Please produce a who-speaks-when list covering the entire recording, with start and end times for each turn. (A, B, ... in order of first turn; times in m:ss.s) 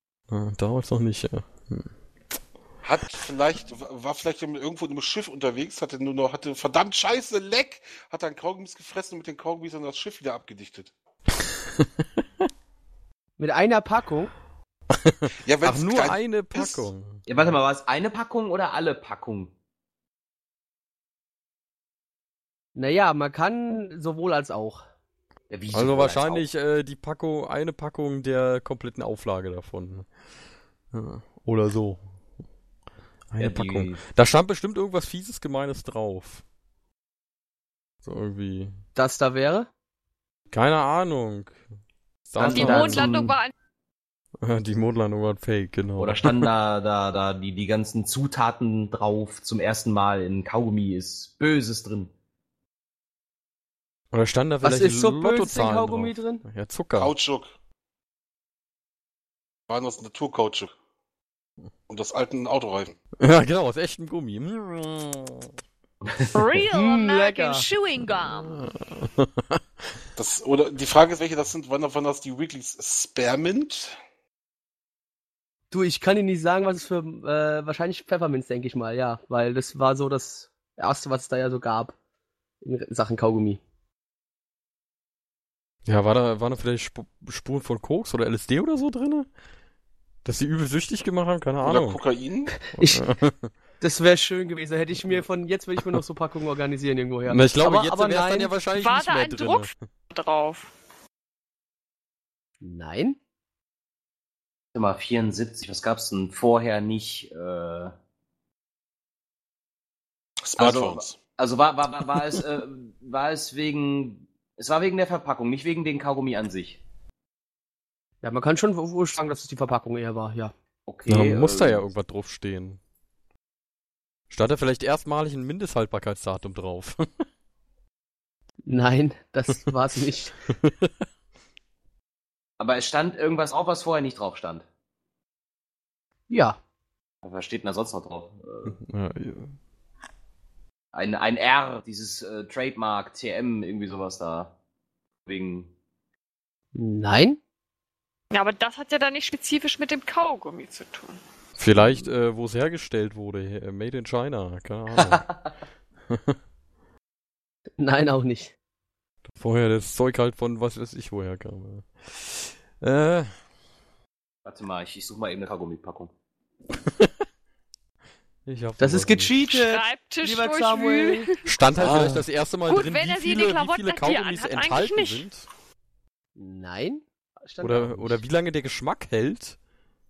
0:00.3-0:01.9 A
0:02.8-0:10.9 B
0:13.4-0:14.3 C
0:14.9-0:17.2 A
0:15.4-0:16.9 B
0:17.3-0:19.5 D
0:22.8-0:24.8 C
0:25.5-0:26.4 D
0:25.7-0:30.1 A
0:30.9-0:32.0 A
0:33.3-0:36.4 A
0:33.4-0:34.0 D
0:38.0-0:38.7 A
0:39.0-0:39.7 C
0:40.5-0:41.6 A
0:42.3-0:43.2 A
0:42.4-0:43.0 C
0:42.5-0:43.5 E
0:42.5-0:43.3 D
0:44.4-0:46.5 A
0:46.0-0:52.1 D
0:54.1-0:57.1 A
0:54.6-0:56.4 C
0:57.0-0:57.5 B
0:59.7-1:00.7 B
1:01.9-1:02.9 B
1:03.2-1:05.5 A
1:06.3-1:08.6 E
1:06.7-1:07.6 C
1:08.2-1:09.8 A
1:10.2-1:14.0 B
1:15.7-1:21.9 C
1:22.6-1:23.6 C
1:25.8-1:29.3 A
1:30.2-1:32.0 A
1:31.6-1:32.5 B
1:32.8-1:33.0 C
1:32.8-1:33.5 A
1:33.8-1:38.5 C
1:37.3-1:39.7 A
1:38.7-1:40.7 E
1:42.6-1:43.2 C
1:44.7-1:47.9 D
1:50.4-1:51.2 B
1:50.6-1:56.8 D
1:58.2-2:00.5 C
2:00.9-2:01.8 D
2:01.1-2:02.8 A
2:04.3-2:07.1 A
2:08.6-2:10.4 C
2:10.6-2:10.9 A
2:12.6-2:14.6 D
2:16.3-2:16.6 C
2:17.2-2:18.8 D
2:18.7-2:19.5 A
2:20.9-2:24.5 D
2:25.2-2:25.7 D
2:26.7-2:27.4 C
2:28.3-2:31.2 E
2:31.6-2:35.4 A
2:36.1-2:36.4 A
2:37.8-2:38.5 C
2:39.4-2:43.4 A
2:44.4-2:46.1 D
2:46.8-2:47.1 A
2:48.4-2:49.3 A
2:48.8-2:51.3 C
2:49.5-2:51.4 E
2:51.5-2:55.5 A
2:51.8-2:52.1 C
2:51.8-2:52.2 B
2:52.6-2:55.2 E
2:56.4-2:58.2 C
2:57.6-2:59.6 A